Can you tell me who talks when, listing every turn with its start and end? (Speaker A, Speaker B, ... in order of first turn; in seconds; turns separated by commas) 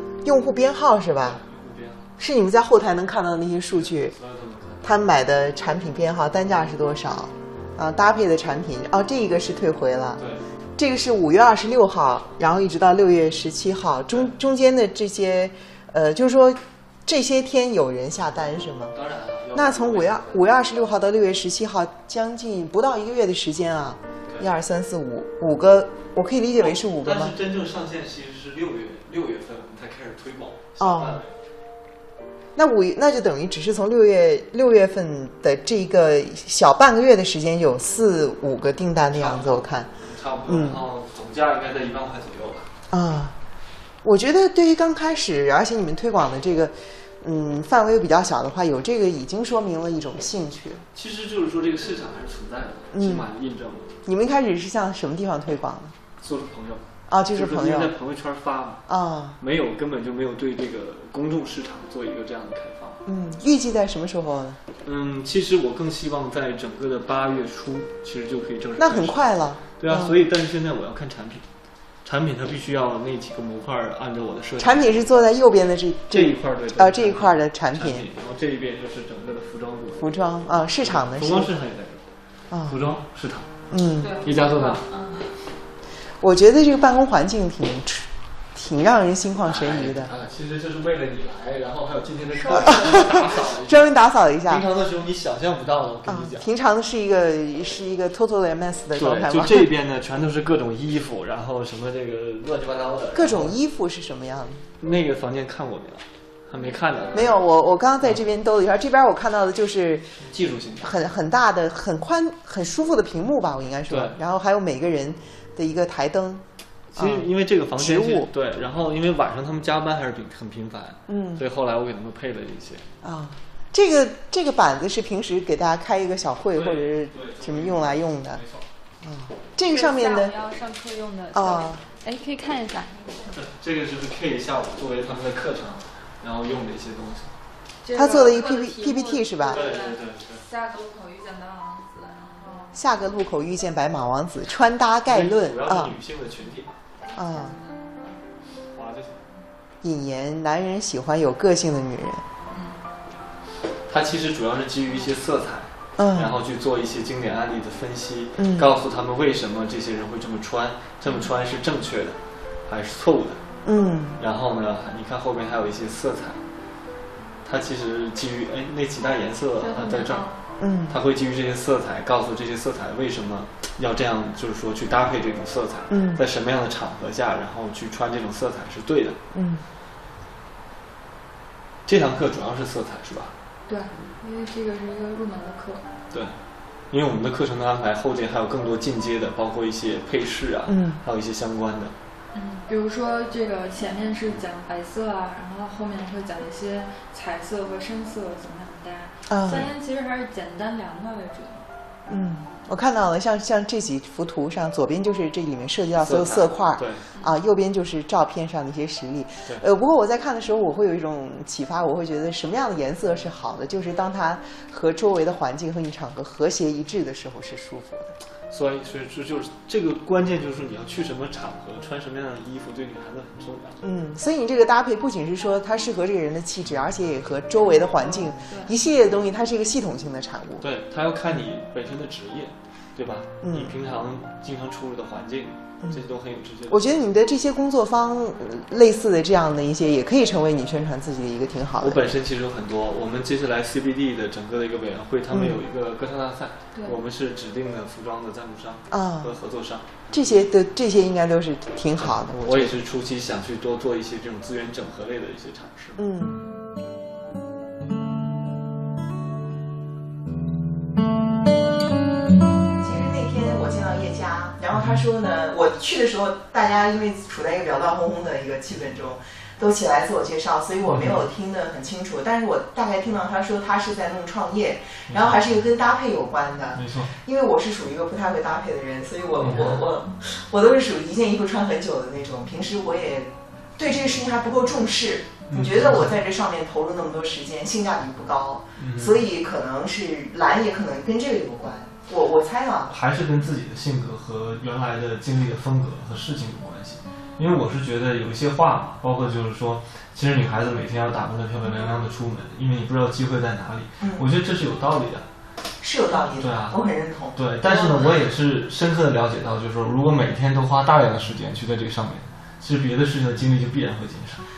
Speaker A: 0.2-1.4, Speaker B: 1.2-2.1, Speaker A: 2.2-4.1, Speaker B: 3.8-4.9, Speaker A: 4.8-10.2, Speaker B: 10.2-10.4, Speaker A: 10.8-18.9, Speaker B: 18.9-20.4, Speaker A: 19.5-27.3, Speaker B: 26.6-31.4, Speaker A: 30.8-31.2, Speaker A: 32.5-39.9, Speaker B: 39.1-42.7, Speaker A: 40.5-40.8, Speaker A: 42.9-43.3, Speaker A: 44.0-50.8, Speaker B: 50.9-53.9, Speaker A: 52.9-53.3, Speaker A: 54.0-55.9, Speaker B: 56.2-58.8, Speaker A: 57.1-57.9, Speaker A: 58.9-59.4, Speaker B: 59.4-63.0, Speaker A: 63.0-64.6, Speaker B: 64.8-69.2, Speaker A: 68.8-70.2, Speaker B: 69.8-71.4, Speaker B: 72.0-75.0, Speaker A: 74.6-78.0, Speaker B: 76.1-82.0, Speaker A: 80.0-81.5, Speaker A: 82.5-82.8, Speaker B: 82.7-83.5, Speaker A: 83.7-84.2, Speaker C: 84.0-85.4, Speaker B: 84.2-84.8, Speaker A: 86.2-90.1, Speaker B: 89.4-96.5, Speaker C: 92.3-92.8, Speaker A: 92.5-94.6, Speaker A: 96.1-99.7, Speaker B: 99.0-103.6, Speaker A: 103.1-104.6, Speaker B: 104.8-107.4, Speaker A: 107.1-110.2, Speaker B: 110.3-111.0, Speaker A: 110.8-116.4, Speaker B: 113.9-114.2, Speaker B: 116.9-122.9, Speaker A: 117.0-118.3, Speaker A: 121.1-121.4, Speaker A: 123.0-128.4, Speaker B: 126.5-128.7, Speaker A: 129.0-130.3, Speaker C: 129.7-133.4, Speaker A: 131.3-131.8, Speaker B: 133.3-137.3, Speaker C: 137.8-142.8, Speaker A: 137.9-139.6, Speaker B: 139.5-140.4, Speaker A: 142.7-145.9, Speaker B: 145.1-146.7, Speaker C: 147.0-148.2, Speaker A: 147.1-147.6, Speaker B: 148.7-149.3, Speaker A: 149.8-152.2, Speaker C: 152.5-152.8, Speaker B: 153.9-163.4, Speaker A: 156.0-156.3, Speaker A: 158.4-158.7, Speaker C: 161.1-161.3, Speaker A: 163.6-164.2, Speaker B: 164.2-166.4, Speaker B: 167.4-170.3, Speaker C: 169.6-170.3, Speaker A: 170.6-170.9, Speaker B: 170.9-179.2, Speaker A: 175.9-176.2, Speaker A: 179.3-179.6, Speaker B: 181.8-183.3, Speaker C: 183.7-185.8, Speaker B: 186.9-191.9, Speaker A: 190.7-191.0, Speaker C: 192.3-201.7, Speaker A: 199.3-199.7, Speaker A: 202.1-218.1, Speaker B: 206.0-207.0, Speaker B: 218.5-223.8, Speaker A: 223.8-230.6, Speaker C: 228.3-228.7, Speaker B: 230.6-237.0, Speaker A: 233.4-233.7, Speaker A: 236.7-242.0, Speaker B: 241.8-250.4, Speaker A: 245.3-245.6, Speaker A: 248.9-249.3, Speaker A: 250.1-252.8, Speaker B: 251.9-256.0, Speaker A: 256.0-256.4, Speaker A: 262.8-292.9, Speaker B: 264.7-265.0, Speaker B: 270.8-271.2, Speaker B: 275.1-275.4, Speaker B: 276.7-277.1, Speaker B: 279.4-279.9, Speaker B: 285.5-286.1, Speaker B: 288.8-289.2, Speaker B: 292.9-305.2, Speaker A: 304.0-304.3, Speaker A: 305.8-308.2, Speaker B: 306.4-306.8, Speaker B: 307.3-314.4